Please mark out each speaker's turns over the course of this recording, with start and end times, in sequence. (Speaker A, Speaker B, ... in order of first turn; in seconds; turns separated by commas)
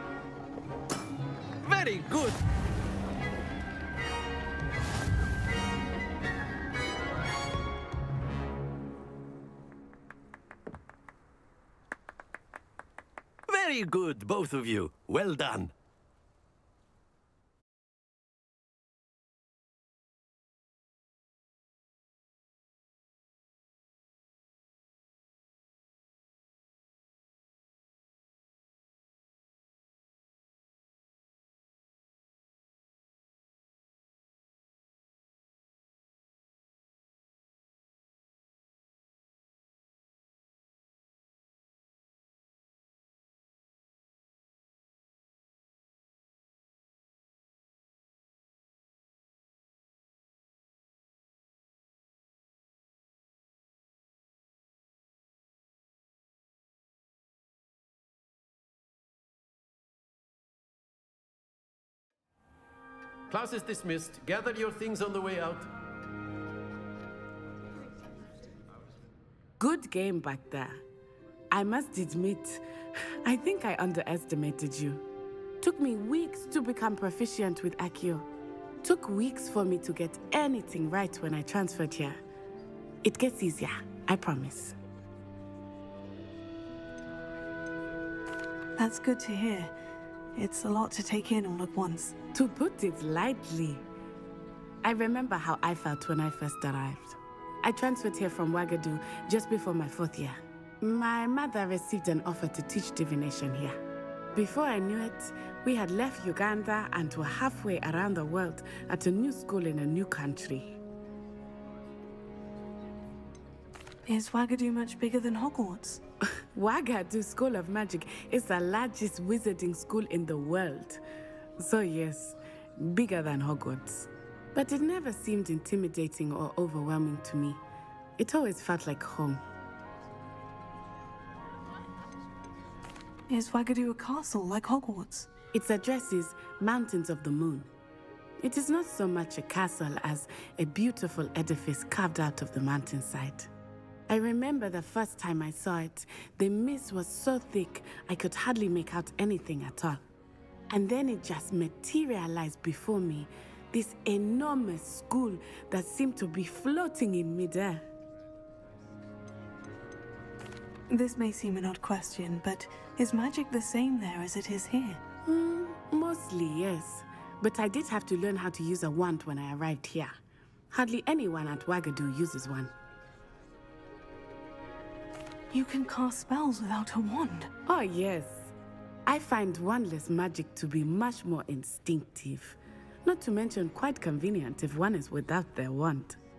Speaker A: 1.6-2.4, Speaker A: 13.5-15.7, Speaker A: 63.3-65.7, Speaker B: 69.6-70.8, Speaker B: 71.5-72.6, Speaker B: 73.2-75.0, Speaker B: 75.6-78.2, Speaker B: 78.8-82.2, Speaker B: 83.0-84.7, Speaker C: 88.8-89.7, Speaker C: 90.3-92.1, Speaker B: 92.3-93.8, Speaker B: 94.8-103.8, Speaker B: 104.3-110.8, Speaker C: 114.1-116.0, Speaker B: 116.5-121.0, Speaker B: 121.6-127.6, Speaker B: 128.2-129.4, Speaker C: 133.3-135.3, Speaker B: 135.5-137.7, Speaker B: 138.4-143.5, Speaker B: 144.1-150.0, Speaker B: 150.7-157.8, Speaker C: 160.9-165.0, Speaker B: 165.2-170.1, Speaker B: 170.7-172.7, Speaker C: 175.5-177.5, Speaker B: 177.7-178.5, Speaker B: 179.1-186.2